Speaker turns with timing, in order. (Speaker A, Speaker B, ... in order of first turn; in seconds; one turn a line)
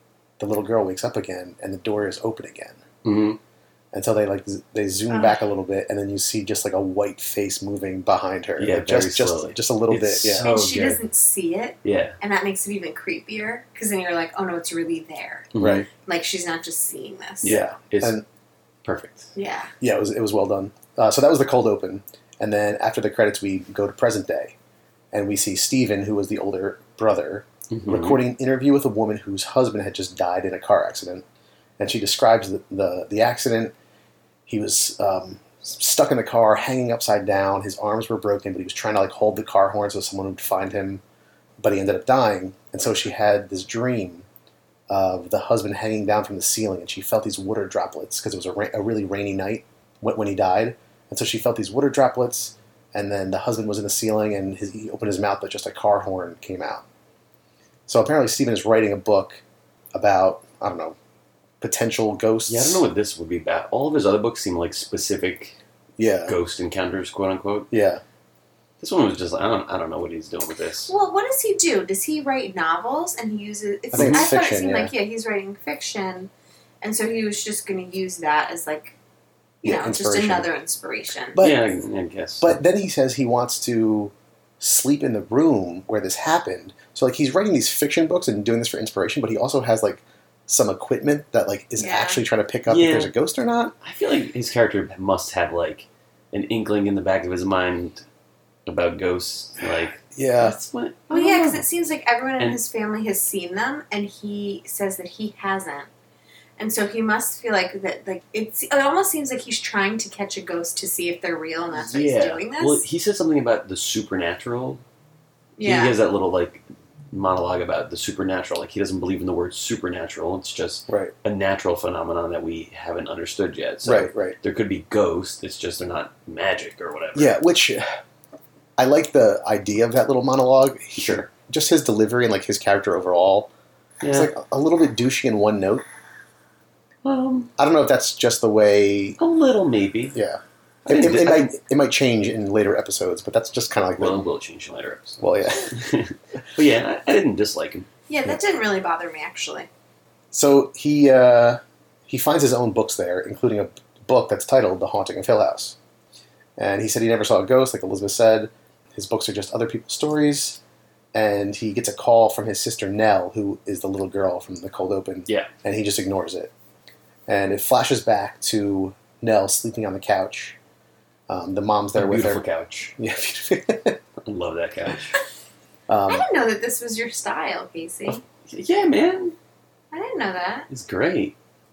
Speaker A: 0.4-2.8
Speaker B: 3.0-3.4
Speaker A: 3.9-10.5
Speaker C: 5.1-5.4
Speaker B: 8.6-11.0
Speaker C: 10.4-17.6
Speaker B: 11.8-12.2
Speaker B: 15.5-15.9
Speaker A: 15.6-15.9
Speaker B: 17.4-18.2
Speaker A: 17.4-18.2
Speaker B: 18.8-19.3
Speaker C: 19.4-19.7
Speaker A: 19.8-24.5
Speaker A: 25.1-31.2
Speaker B: 27.7-28.2
Speaker A: 31.8-33.7
Speaker A: 34.5-41.0
Speaker A: 41.6-44.2
Speaker A: 44.9-56.8
Speaker A: 57.9-59.4
Speaker A: 59.9-61.0
Speaker A: 61.6-62.9
Speaker B: 62.5-65.5
Speaker A: 66.0-66.3
Speaker B: 66.2-67.7
Speaker A: 67.7-68.0
Speaker B: 68.8-70.9
Speaker C: 70.9-76.3
Speaker A: 73.9-74.9
Speaker B: 73.9-74.2
Speaker C: 76.8-79.0
Speaker C: 79.6-81.4
Speaker A: 79.6-80.5
Speaker A: 81.3-81.7
Speaker B: 81.4-82.6
Speaker A: 82.4-93.7
Speaker C: 91.8-92.2
Speaker B: 92.7-93.1
Speaker B: 93.8-98.0
Speaker B: 98.7-101.6
Speaker A: 100.1-100.6
Speaker C: 101.1-105.9
Speaker C: 106.6-112.8
Speaker B: 111.7-114.8
Speaker C: 115.6-116.0
Speaker B: 115.6-127.4
Speaker A: 120.9-121.1
Speaker A: 123.8-124.3
Speaker A: 127.1-127.8
Speaker A: 128.8-133.5
Speaker B: 131.0-131.3
Speaker B: 134.0-134.3
Speaker A: 134.1-135.8
Speaker B: 137.0-137.5
Speaker A: 137.6-139.2
Speaker B: 139.2-140.2
Speaker A: 140.1-144.2
Speaker B: 140.8-141.5
Speaker B: 144.0-147.9
Speaker A: 145.2-145.8
Speaker C: 148.1-149.7
Speaker A: 150.3-155.8
Speaker A: 156.6-160.6
Speaker A: 161.1-166.5
Speaker A: 167.3-170.6
Speaker A: 171.3-172.4
Speaker B: 171.9-172.9
Speaker A: 173.0-174.0
Speaker B: 174.2-175.2
Speaker A: 175.9-176.2
Speaker C: 176.1-178.2
Speaker B: 178.1-179.3
Speaker C: 179.9-180.7
Speaker B: 180.7-181.3